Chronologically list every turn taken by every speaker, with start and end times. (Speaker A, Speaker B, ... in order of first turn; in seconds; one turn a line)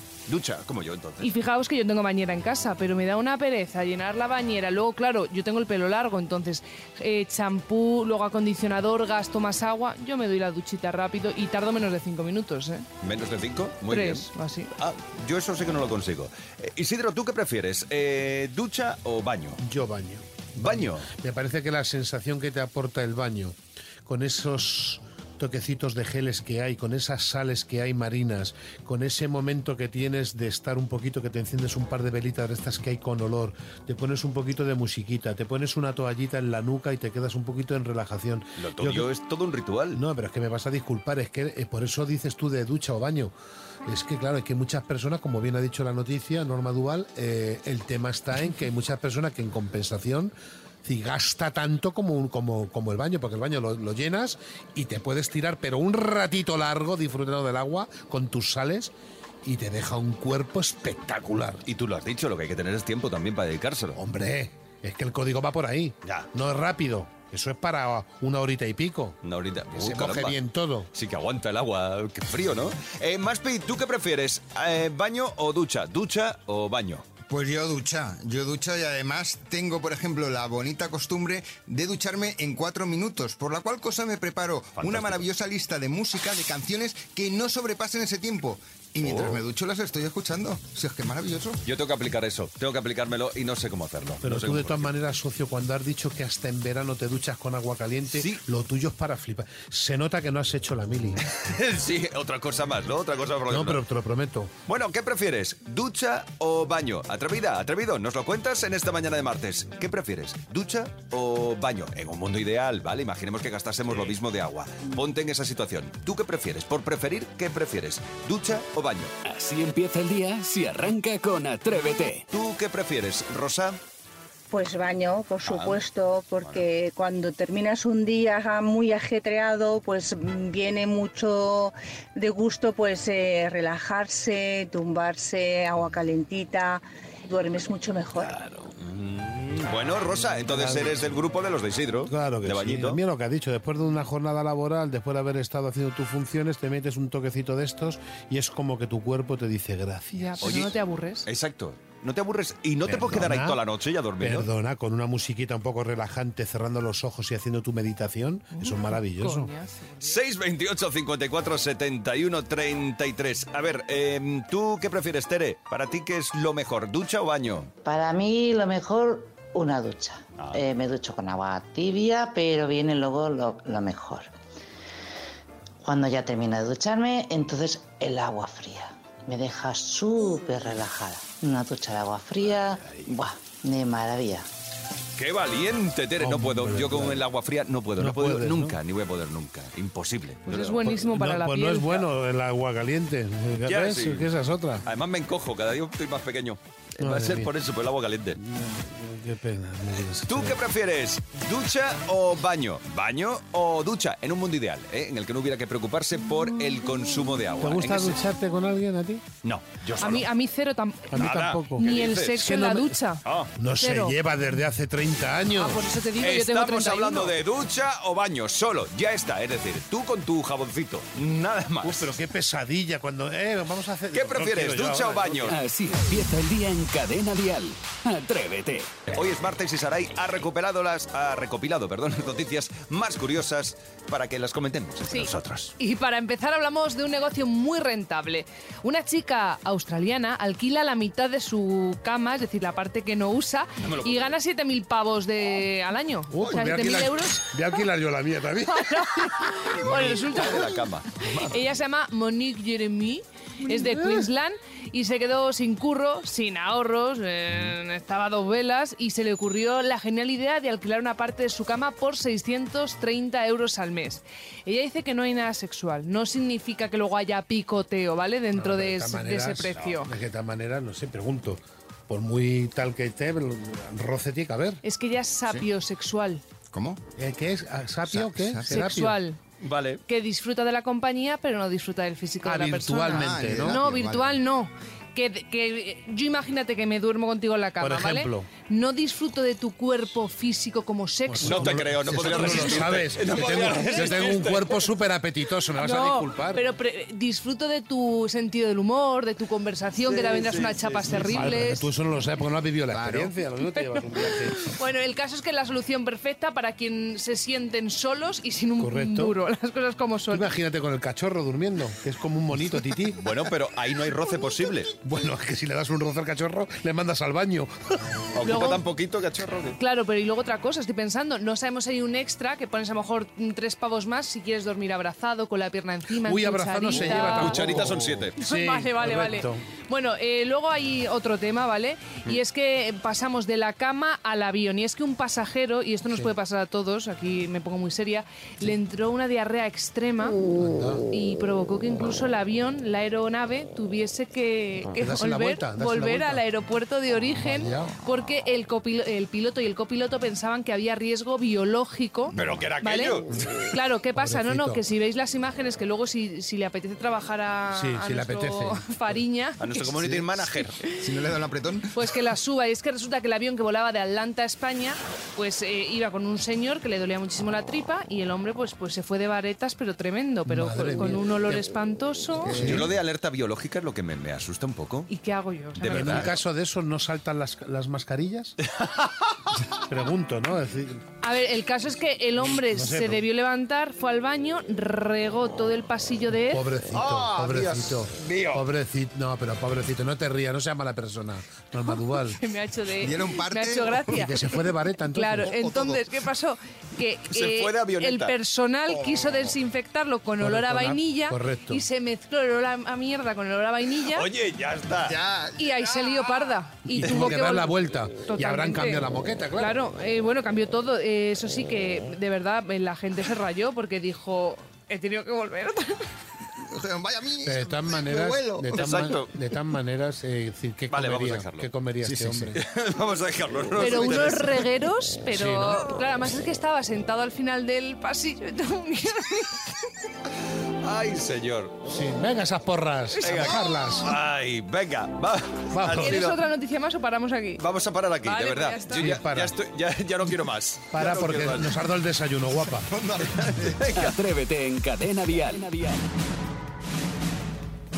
Speaker A: 0.3-1.3
Speaker B: 1.2-12.9
Speaker A: 13.0-14.3
Speaker B: 13.9-14.7
Speaker A: 14.8-19.6
Speaker C: 19.6-39.1
Speaker A: 20.6-21.1
Speaker A: 38.6-40.0
Speaker C: 39.9-43.3
Speaker C: 43.9-50.3
Speaker C: 50.8-58.9
Speaker C: 59.4-61.6
Speaker A: 61.7-64.0
Speaker C: 64.0-69.2
Speaker A: 69.2-70.4
Speaker C: 69.8-70.9
Speaker A: 70.9-77.0
Speaker D: 77.3-91.6
Speaker A: 84.8-85.2
Speaker A: 89.0-89.4
Speaker A: 91.7-94.9
Speaker C: 94.2-101.3
Speaker A: 98.1-98.4
Speaker A: 101.3-103.8
Speaker C: 103.5-104.5
Speaker A: 104.7-119.1
Speaker E: 119.2-122.2
Speaker A: 122.3-123.8
Speaker F: 124.5-138.4
Speaker A: 125.5-125.8
Speaker A: 138.2-143.0
Speaker C: 140.5-141.1
Speaker C: 142.1-150.5
Speaker B: 150.2-151.3
Speaker A: 150.4-150.7
Speaker A: 151.3-154.5
Speaker C: 152.8-153.6
Speaker C: 154.2-159.5
Speaker B: 158.5-160.1
Speaker A: 160.0-167.7
Speaker G: 167.8-174.3
Speaker A: 170.4-170.6
Speaker G: 175.8-184.5
Speaker A: 182.5-183.0
Speaker A: 185.2-190.9
Speaker C: 186.2-187.2
Speaker C: 188.0-188.8
Speaker B: 190.5-192.1
Speaker C: 190.8-194.9
Speaker A: 193.6-194.3
Speaker A: 194.8-198.4
Speaker C: 197.0-197.5
Speaker C: 198.4-200.6
Speaker A: 200.3-208.2
Speaker C: 207.6-209.2
Speaker A: 209.4-210.3
Speaker B: 210.0-211.2
Speaker C: 211.1-213.0
Speaker A: 211.2-212.5
Speaker B: 211.8-213.2
Speaker A: 213.2-213.5
Speaker C: 213.6-215.8
Speaker B: 213.8-214.2
Speaker B: 215.6-217.3
Speaker A: 216.2-222.2
Speaker C: 221.8-225.5
Speaker A: 224.1-225.6
Speaker E: 225.5-229.0
Speaker A: 229.1-235.8
Speaker B: 235.1-247.5
Speaker A: 243.8-244.3
Speaker C: 246.3-249.7
Speaker B: 248.7-270.1
Speaker A: 249.8-251.6
Speaker C: 253.7-254.3
Speaker C: 268.5-274.8
Speaker B: 274.8-276.4
Speaker D: 276.7-277.0
Speaker C: 277.2-279.2
Speaker D: 278.1-278.8
Speaker B: 278.7-279.4
Speaker A: 279.6-280.0
Speaker B: 280.1-291.8
Speaker C: 282.4-283.8
Speaker D: 283.1-284.4
Speaker C: 287.8-288.5
Speaker C: 291.3-296.6
Speaker A: 291.4-294.8
Speaker D: 292.1-293.0
Speaker B: 295.8-301.9
Speaker A: 300.0-301.6
Speaker C: 301.2-304.7
Speaker D: 302.9-303.3
Speaker B: 303.8-310.5
Speaker C: 308.8-309.4
Speaker C: 310.3-313.2
Speaker A: 313.2-314.9
Speaker C: 315.0-318.0
Speaker A: 318.4-319.8
Speaker B: 318.4-318.8
Speaker B: 319.8-327.8
Speaker C: 326.2-329.6
Speaker A: 327.1-328.4
Speaker B: 328.4-340.4
Speaker C: 340.6-341.0
Speaker B: 341.1-359.9
Speaker C: 345.0-346.4
Speaker C: 347.4-347.9
Speaker A: 352.3-353.3
Speaker C: 354.1-354.8
Speaker C: 357.7-358.9
Speaker A: 359.6-360.8
Speaker D: 360.9-361.9
Speaker B: 361.9-372.6
Speaker C: 370.5-371.7
Speaker C: 372.4-372.9
Speaker D: 372.4-372.9
Speaker A: 372.5-375.1
Speaker B: 375.1-376.3
Speaker A: 375.8-376.4
Speaker C: 375.9-378.6
Speaker A: 378.6-379.4
Speaker C: 379.9-381.0
Speaker B: 381.2-386.6
Speaker C: 382.6-383.2
Speaker C: 386.5-392.4
Speaker A: 386.9-388.6
Speaker B: 391.9-404.3
Speaker D: 393.0-394.2
Speaker C: 394.1-395.6
Speaker D: 395.4-396.1
Speaker A: 397.3-398.3
Speaker C: 400.4-401.9
Speaker A: 404.1-405.2
Speaker D: 405.1-405.7
Speaker B: 405.6-407.8
Speaker C: 406.9-409.8
Speaker B: 408.3-409.0
Speaker B: 409.6-416.1
Speaker D: 416.6-418.9
Speaker C: 417.4-422.6
Speaker A: 418.7-419.3
Speaker A: 420.9-424.7
Speaker B: 423.8-429.8
Speaker C: 425.3-425.9
Speaker A: 430.8-431.8
Speaker C: 431.9-434.2
Speaker A: 433.2-436.4
Speaker B: 433.3-433.6
Speaker C: 435.7-436.3
Speaker B: 436.0-437.6
Speaker A: 437.6-441.8
Speaker B: 438.2-439.1
Speaker C: 438.9-439.6
Speaker C: 440.9-442.9
Speaker D: 442.7-443.9
Speaker A: 443.4-444.2
Speaker E: 444.0-446.0